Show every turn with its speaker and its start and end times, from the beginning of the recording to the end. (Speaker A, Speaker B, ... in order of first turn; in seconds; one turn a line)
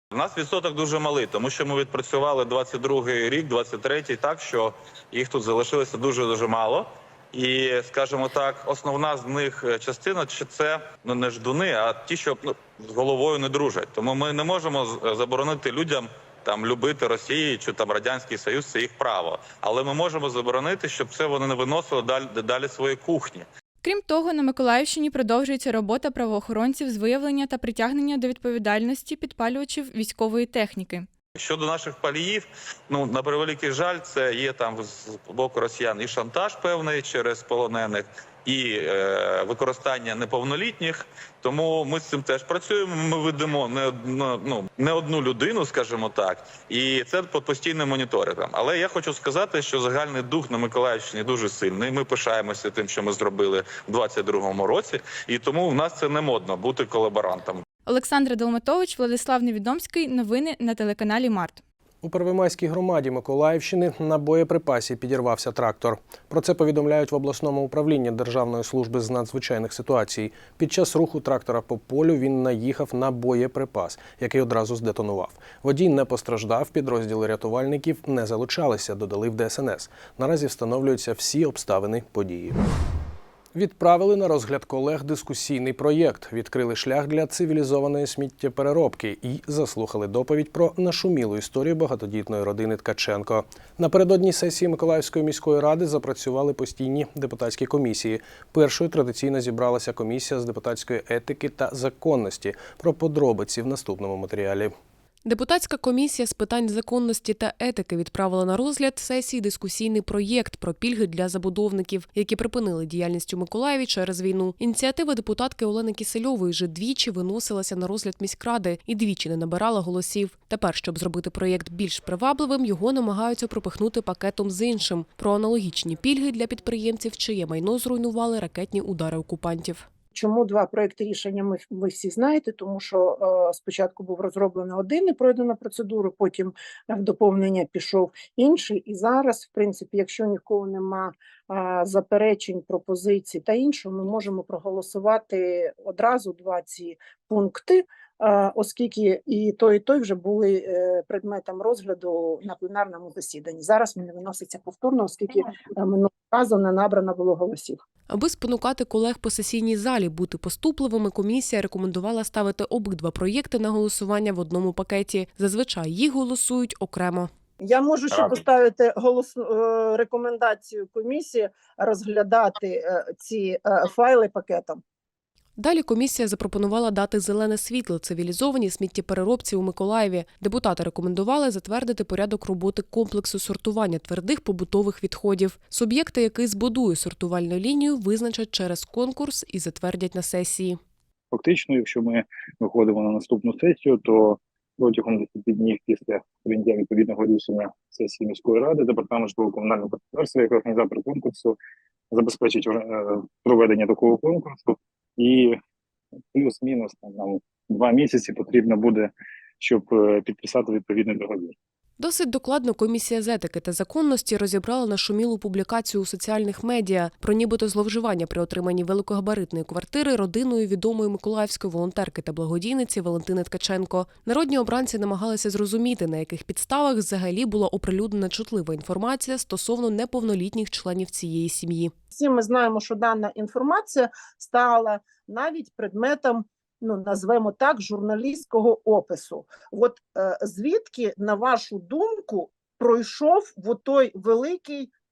Speaker A: 0.1-23.5
Speaker B: 23.8-31.1
Speaker A: 31.4-57.6
Speaker B: 57.9-61.6
Speaker C: 62.0-82.6
Speaker C: 83.5-104.7
Speaker D: 105.2-129.9
Speaker E: 130.1-157.8
Speaker D: 158.1-167.3
Speaker E: 167.6-174.8
Speaker D: 175.6-190.8
Speaker F: 191.3-201.6
Speaker F: 202.1-205.6
Speaker F: 206.3-211.5
Speaker D: 212.0-231.9
Speaker E: 232.1-244.9